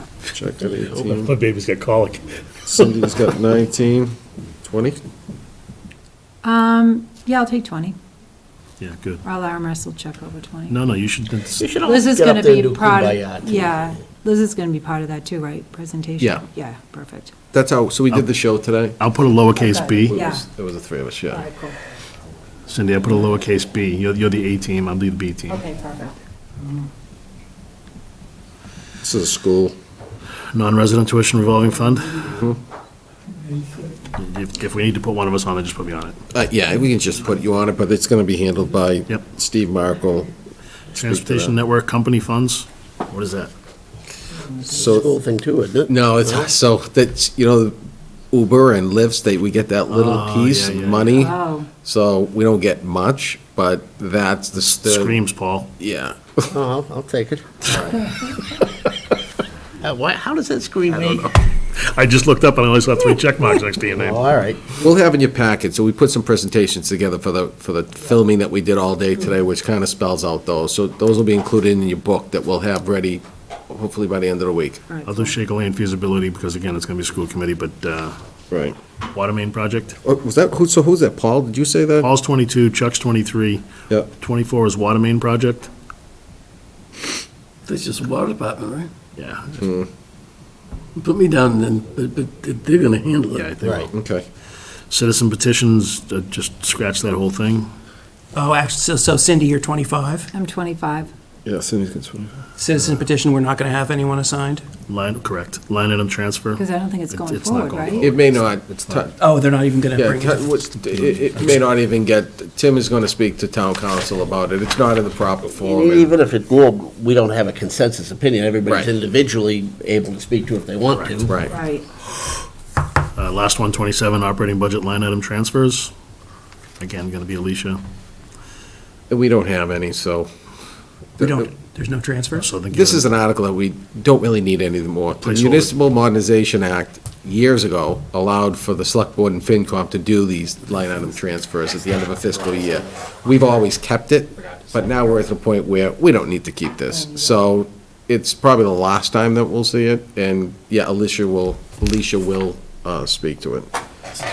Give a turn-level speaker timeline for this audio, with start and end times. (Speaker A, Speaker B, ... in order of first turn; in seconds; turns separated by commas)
Speaker A: 0.3-1.3, Speaker B: 0.6-1.1, Speaker C: 1.2-2.9, Speaker A: 2.7-5.0, Speaker D: 6.4-8.0, Speaker C: 8.8-9.2, Speaker D: 9.2-10.8, Speaker C: 10.7-11.6, Speaker B: 11.6-14.0, Speaker D: 11.8-17.3, Speaker A: 17.5-19.0, Speaker C: 19.0-20.2, Speaker D: 19.6-20.4, Speaker A: 20.1-21.4, Speaker D: 21.3-21.8, Speaker C: 22.7-25.6, Speaker D: 25.5-26.2, Speaker A: 29.0-29.8, Speaker C: 30.5-32.3, Speaker C: 34.2-36.2, Speaker A: 36.3-40.3, Speaker C: 41.0-43.5, Speaker A: 41.0-41.5, Speaker A: 44.7-45.1, Speaker B: 44.7-46.5, Speaker A: 45.9-47.8, Speaker A: 48.3-55.2, Speaker C: 49.9-51.2, Speaker D: 51.2-51.7, Speaker C: 54.6-55.7, Speaker A: 55.8-56.5, Speaker B: 56.5-57.9, Speaker B: 59.8-61.3, Speaker C: 61.8-64.2, Speaker B: 63.9-64.8, Speaker A: 64.8-74.8, Speaker D: 74.9-75.2, Speaker C: 75.0-78.2, Speaker A: 78.5-78.8, Speaker C: 79.1-80.0, Speaker A: 80.0-82.1, Speaker C: 82.0-83.7, Speaker C: 84.2-85.7, Speaker E: 87.7-88.9, Speaker C: 89.2-89.6, Speaker A: 89.6-89.9, Speaker E: 91.0-93.5, Speaker C: 93.3-93.9, Speaker B: 93.6-93.9, Speaker A: 93.9-94.3, Speaker C: 94.9-97.7, Speaker F: 98.3-100.3, Speaker D: 100.3-101.1, Speaker A: 101.5-102.3, Speaker F: 102.6-104.6, Speaker C: 104.9-109.1, Speaker D: 106.5-108.1, Speaker A: 108.0-109.1, Speaker F: 109.2-110.5, Speaker A: 110.0-116.2, Speaker C: 111.1-111.6, Speaker B: 115.6-121.4, Speaker C: 120.9-121.2, Speaker A: 121.3-121.6, Speaker D: 121.5-121.9, Speaker C: 123.2-125.9, Speaker C: 126.8-127.8, Speaker A: 129.1-130.3, Speaker A: 131.2-131.5, Speaker F: 131.2-132.5, Speaker C: 132.4-133.1, Speaker A: 132.7-153.7, Speaker C: 135.2-135.7